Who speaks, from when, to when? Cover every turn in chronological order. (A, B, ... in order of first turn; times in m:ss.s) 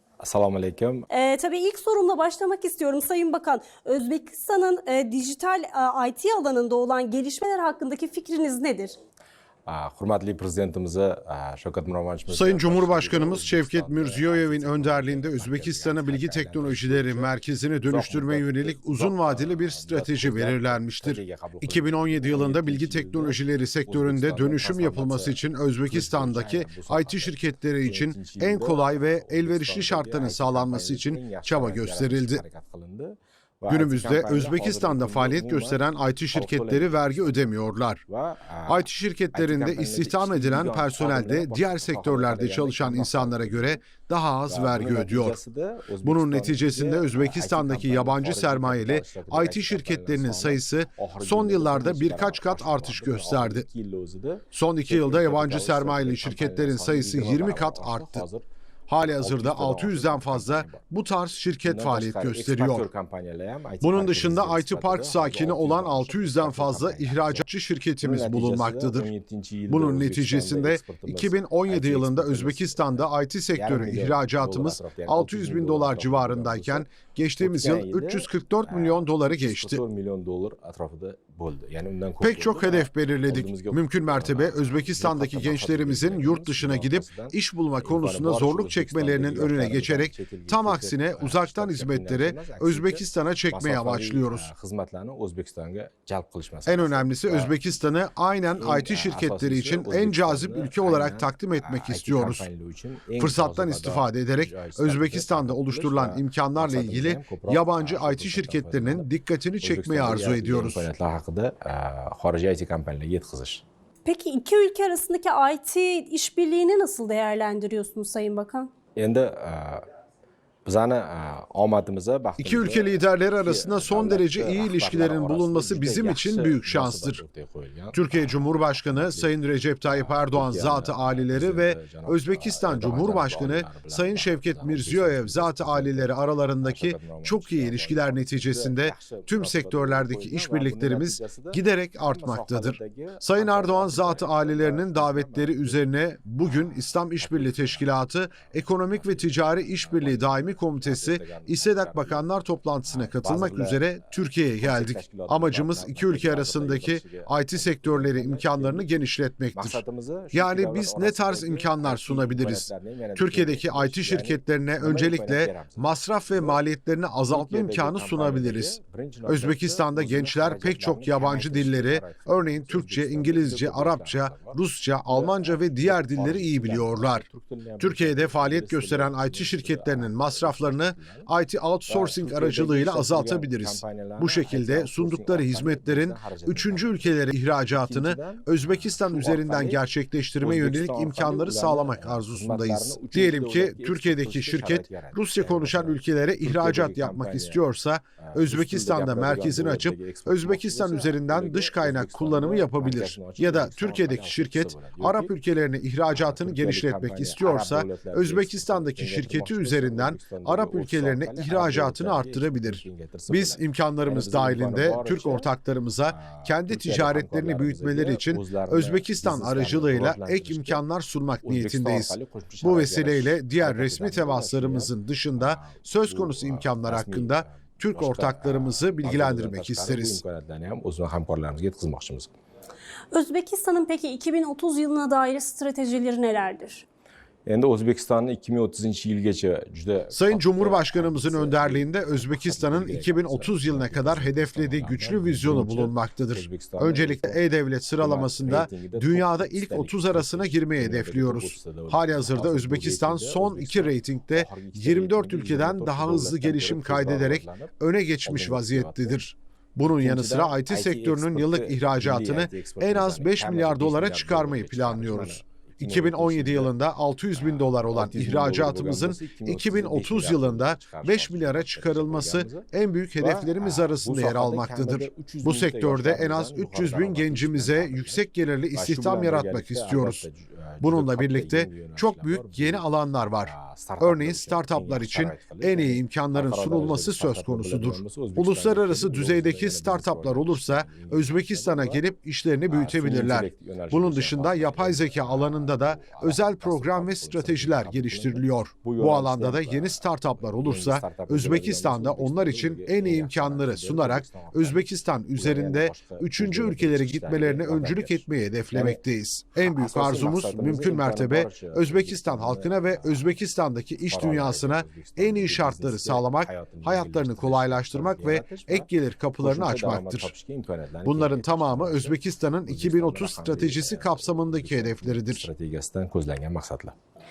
0:00.2-0:01.1 A
0:01.1-0:09.0 B
0:09.7-0:37.3 A
0:12.3-0:32.4 C
0:33.7-0:38.0 C
0:38.1-0:43.8 A
0:38.7-0:45.4 C
0:44.5-0:58.5 A
0:46.0-0:53.7 C
0:54.5-0:58.2 C
0:58.9-1:02.9 C
0:59.0-1:00.8 A
1:01.6-1:07.5 A
1:03.8-1:09.1 C
1:08.0-1:37.6 A
1:09.7-1:19.8 C
1:22.2-1:34.5 C
1:36.7-1:42.5 C
1:38.6-1:49.1 A
1:43.2-1:50.9 C
1:49.6-1:53.6 A
1:54.0-1:58.7 B
1:59.0-1:59.9 A
2:00.6-2:09.3 A
2:02.4-2:07.2 C
2:07.9-2:57.3 C
2:09.8-2:25.9 A
2:26.4-2:28.0 A
2:28.6-2:32.2 A
2:32.8-2:34.0 A
2:34.6-2:38.9 A
2:39.6-2:46.6 A
2:47.3-3:01.3 A
2:57.8-3:50.2 C
3:01.9-3:09.8 A
3:10.4-3:17.6 A
3:18.2-3:25.3 A
3:26.1-3:35.5 A
3:36.1-3:40.8 A
3:41.4-3:52.3 A
3:53.1-3:56.8 B
3:57.5-4:07.4 A
4:00.1-4:40.2 C
4:08.0-4:17.7 A
4:18.2-4:19.2 A
4:20.0-4:26.7 A
4:27.4-4:52.0 A
4:40.8-5:20.3 C
4:52.7-5:09.0 A
5:09.6-5:13.4 A
5:14.1-5:18.9 A
5:19.4-5:27.0 A
5:21.0-5:25.5 C